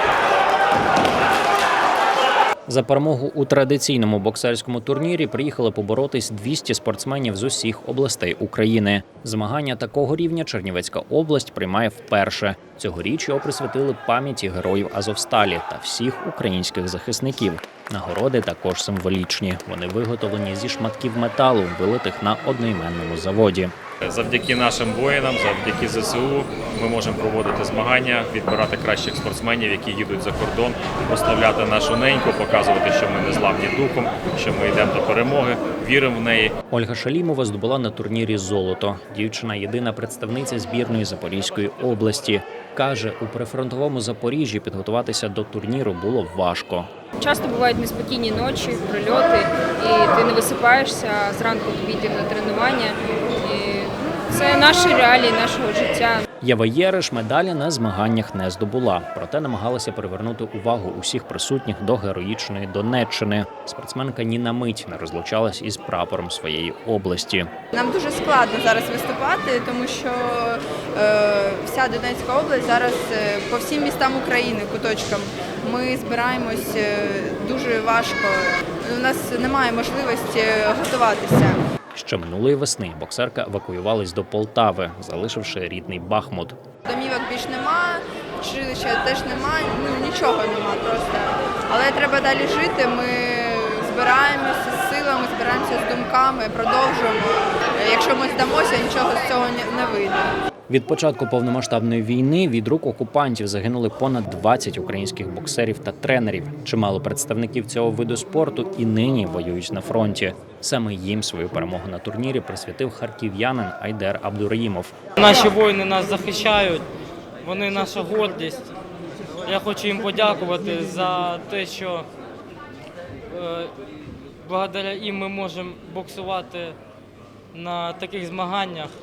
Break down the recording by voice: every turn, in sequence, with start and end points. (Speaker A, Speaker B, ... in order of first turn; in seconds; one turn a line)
Speaker A: 2.6-23.7
Speaker B: 24.0-36.5
Speaker A: 36.7-46.9
Speaker C: 47.2-56.2
Speaker A: 56.4-67.5
Speaker D: 67.7-81.6
Speaker A: 81.9-86.6
Speaker D: 86.9-100.3
Speaker A: 100.7-114.9
Speaker E: 115.2-116.8
Speaker E: 117.4-118.6
Speaker E: 119.4-122.0
Speaker E: 123.3-123.7
Speaker E: 124.4-126.8
Speaker E: 127.5-128.9